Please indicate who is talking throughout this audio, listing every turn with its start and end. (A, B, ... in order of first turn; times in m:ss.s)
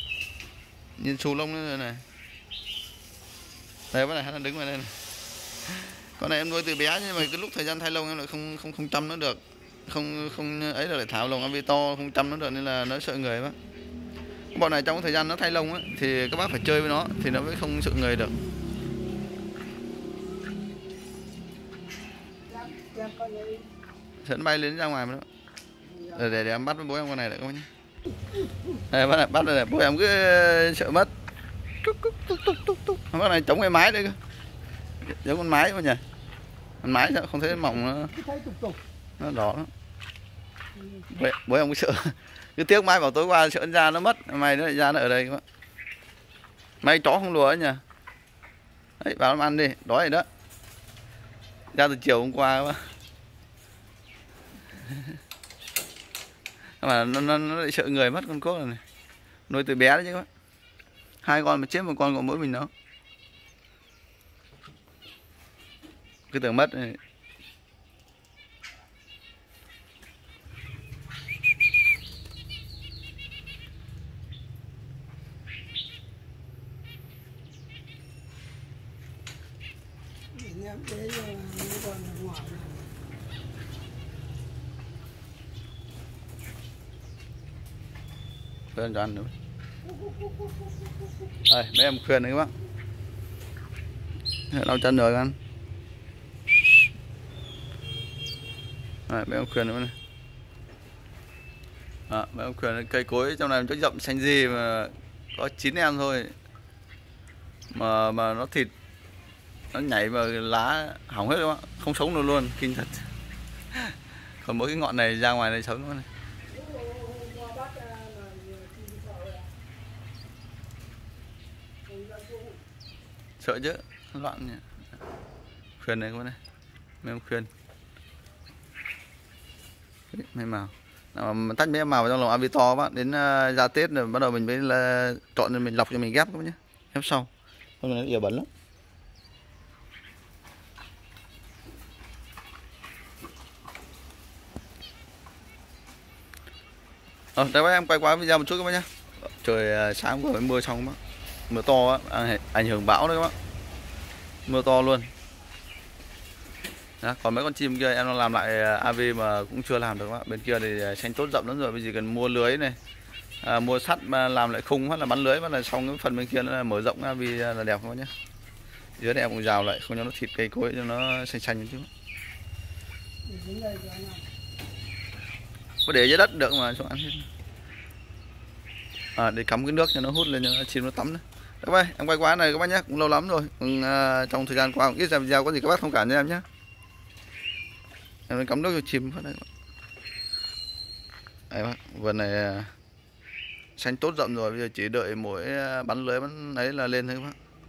0:01.0-0:02.0 A
0:03.9-0:04.9 A
0:05.7-0:13.6 A
0:14.5-0:18.4 A
0:22.5-0:23.7 B
0:24.2-0:25.2 A
0:26.1-0:27.7 A
0:28.9-0:31.1 A
0:31.8-0:34.2 A
0:35.0-0:36.0 A
0:36.8-0:38.1 A
0:38.1-0:38.8 B
0:39.2-0:39.7 A
0:41.1-0:45.4 A
0:46.8-0:47.8 A
0:49.0-0:50.2 A
0:51.7-0:52.8 A
0:56.8-0:58.8 A
0:59.5-1:00.3 A
1:01.2-1:02.7 A
1:06.3-1:07.0 A
1:20.3-1:22.8 B
1:28.7-1:29.3 A
1:31.5-1:32.5 A
1:34.5-1:35.4 A
1:39.1-1:39.9 A
1:42.1-1:46.3 A
1:47.7-1:48.7 A
1:49.7-1:53.1 A
1:53.7-1:56.1 A
1:56.5-1:59.5 B
2:01.9-2:02.6 B
2:03.4-2:04.6 A
2:05.8-2:06.4 A
2:07.0-2:07.5 A
2:10.1-2:17.3 A
2:17.8-2:18.5 A
2:27.4-2:31.0 A
2:31.5-2:33.3 A
2:34.4-2:35.1 A
2:37.0-2:42.8 A
2:43.4-2:48.1 A
2:49.0-2:51.9 A
2:53.2-2:54.2 B
2:55.8-2:57.3 A
2:59.2-3:06.4 A
3:08.3-3:09.5 A
3:11.5-3:12.7 A
3:13.8-3:17.4 A